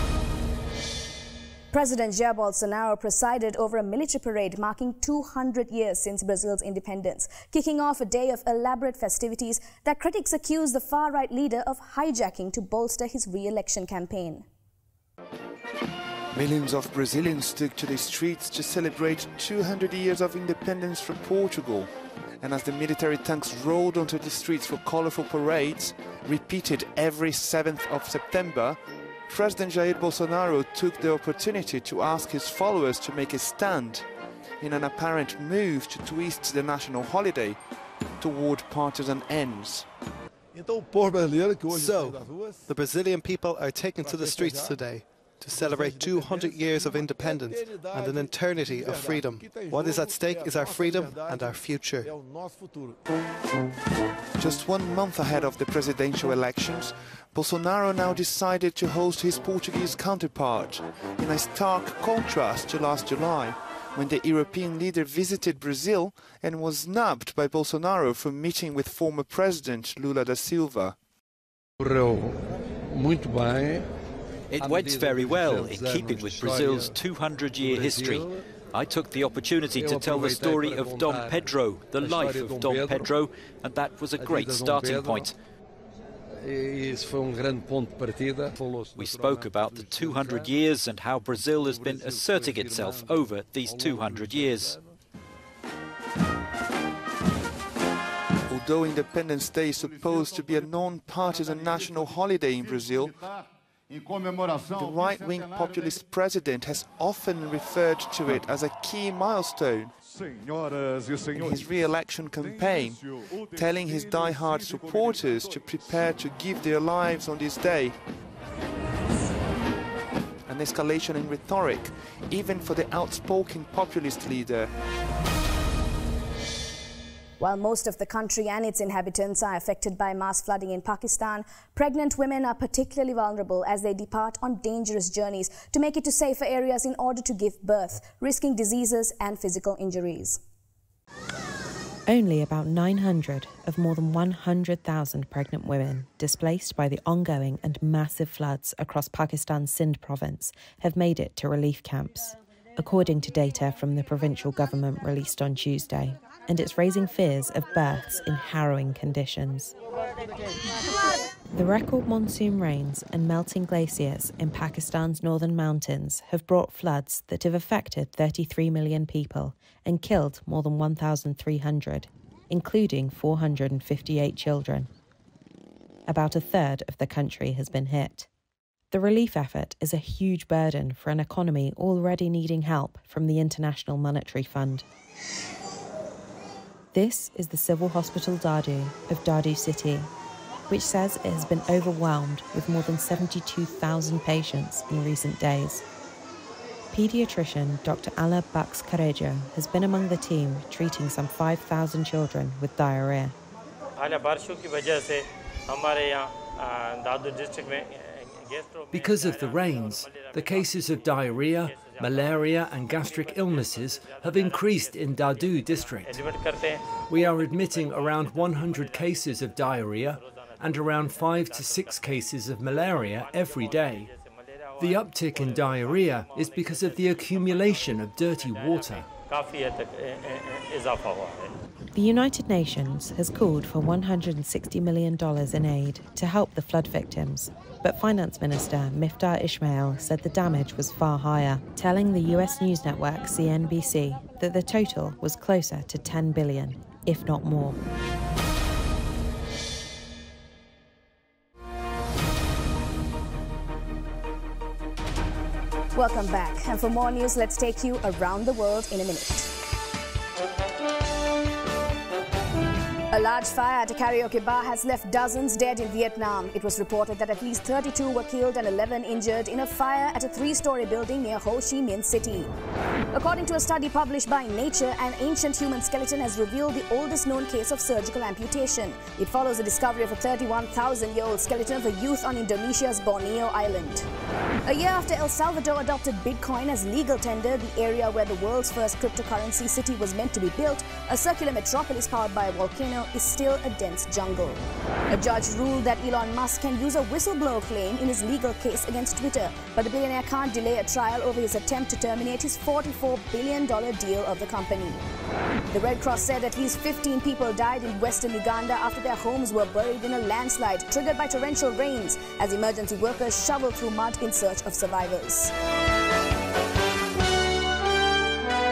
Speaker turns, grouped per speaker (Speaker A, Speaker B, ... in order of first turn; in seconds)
Speaker A: 1.7-14.5, 127.4-140.4, 255.9-259.5, 263.1-272.5, 273.1-284.1, 284.7-305.0, 305.7-315.5
Speaker B: 16.3-21.9, 22.4-34.1, 34.6-37.6, 38.2-39.9, 54.4-71.0, 98.5-103.2, 104.7-109.9, 111.3-118.0, 120.5-124.7
Speaker C: 40.6-52.5, 76.0-76.5, 80.4-81.0, 82.1-82.6, 84.3-85.0, 86.8-88.1, 89.0-90.5, 91.7-93.1, 93.7-94.8
Speaker D: 74.6-78.3, 79.6-83.2, 84.0-85.3, 89.0-90.8, 91.4-94.6
Speaker E: 142.1-159.7, 161.5-174.9, 176.1-178.3, 178.9-184.8, 186.9-190.1, 190.7-195.8, 196.9-203.3, 231.9-247.8
Speaker F: 208.9-216.2, 217.1-224.1, 224.8-229.1